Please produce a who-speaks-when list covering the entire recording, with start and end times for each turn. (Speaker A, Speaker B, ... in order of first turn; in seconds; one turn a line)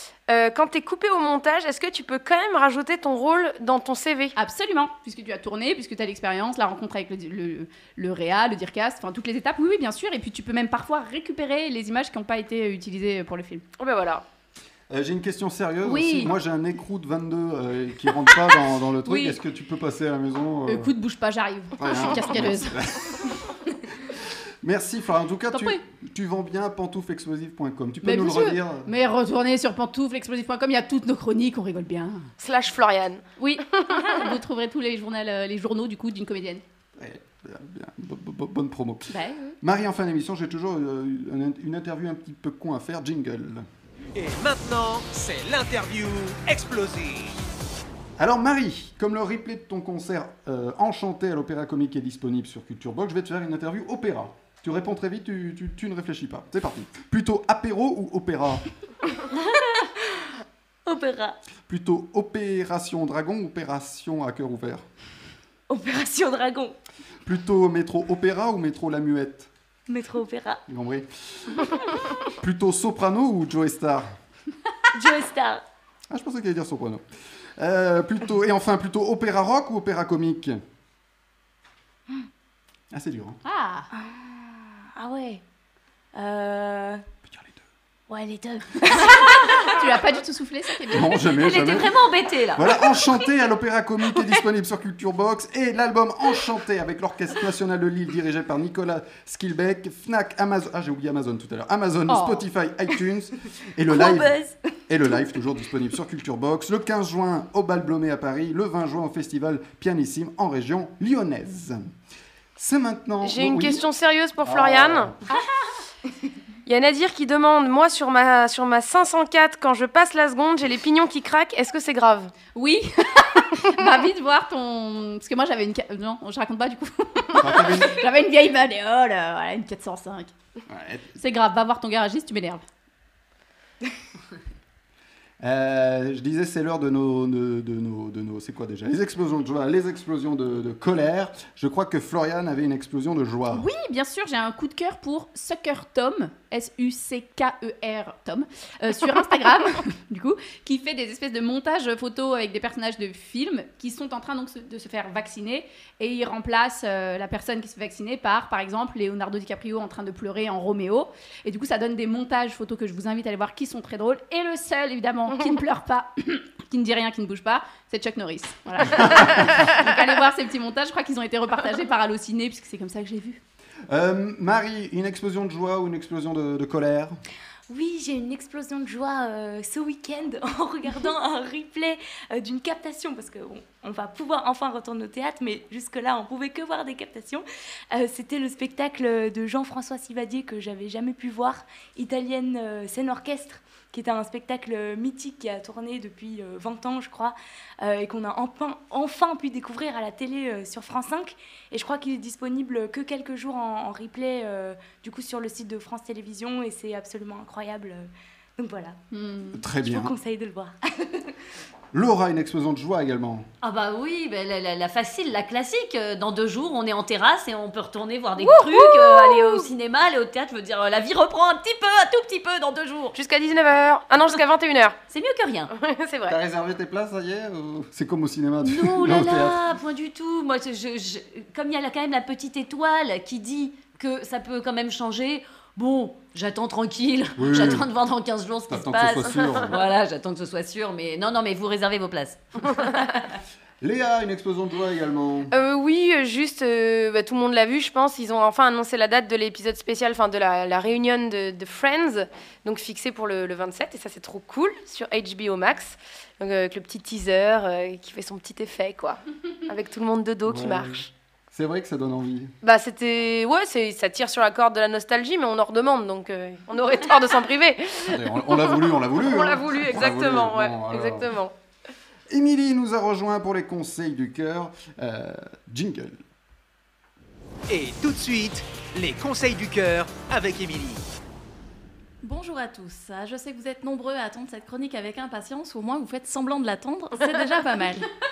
Speaker A: 0.3-4.3
Speaker B: 4.3-13.6
Speaker A: 13.8-14.2
Speaker C: 14.9-20.9
Speaker B: 15.8-16.3
Speaker B: 19.0-19.4
Speaker B: 20.7-22.8
Speaker C: 21.8-23.4
Speaker C: 24.1-28.9
Speaker B: 25.5-25.8
Speaker B: 28.0-32.3
Speaker A: 32.4-33.2
Speaker B: 33.4-36.6
Speaker A: 33.8-34.1
Speaker C: 37.0-43.6
Speaker B: 39.1-39.6
Speaker D: 44.1-47.4
Speaker C: 48.2-58.6
Speaker E: 59.3-60.2
Speaker E: 60.9-61.4
Speaker C: 61.7-64.8
Speaker E: 65.7-66.8
Speaker C: 67.2-69.5
Speaker E: 69.9-70.6
Speaker C: 70.7-74.1
Speaker E: 74.9-75.6
Speaker C: 76.1-77.0
Speaker C: 77.6-80.6
Speaker C: 82.9-83.4
Speaker B: 83.4-83.9
Speaker E: 83.9-85.4
Speaker E: 86.1-87.0
Speaker C: 87.2-87.6
Speaker E: 88.1-89.9
Speaker B: 88.8-91.2
Speaker C: 90.9-92.0
Speaker F: 91.2-93.0
Speaker C: 92.5-104.4
Speaker B: 102.1-102.4
Speaker E: 103.9-104.7
Speaker C: 104.9-111.8
Speaker C: 112.5-113.8
Speaker A: 113.2-115.1
Speaker C: 114.4-115.3
Speaker A: 116.7-122.3
Speaker B: 122.5-130.3
Speaker C: 127.4-128.0
Speaker C: 130.7-131.2
Speaker B: 131.2-132.6
Speaker C: 135.4-143.7
Speaker B: 143.5-173.4
Speaker C: 168.8-169.5
Speaker C: 173.9-177.2
Speaker E: 177.7-209.0
Speaker B: 209.1-209.6
Speaker C: 209.5-210.1
Speaker E: 209.8-211.3
Speaker C: 211.9-213.5
Speaker F: 213.6-223.2
Speaker E: 219.3-219.6
Speaker A: 223.1-225.0
Speaker F: 225.1-225.7
Speaker A: 225.7-226.3
Speaker C: 226.3-229.6
Speaker F: 228.6-242.7
Speaker C: 237.4-237.9
Speaker C: 238.7-239.8
Speaker C: 243.8-245.5
Speaker A: 245.5-261.1
Speaker C: 260.4-262.5
Speaker A: 262.6-271.5
Speaker C: 268.1-271.3
Speaker C: 272.3-276.2
Speaker D: 277.7-281.0
Speaker G: 282.2-288.1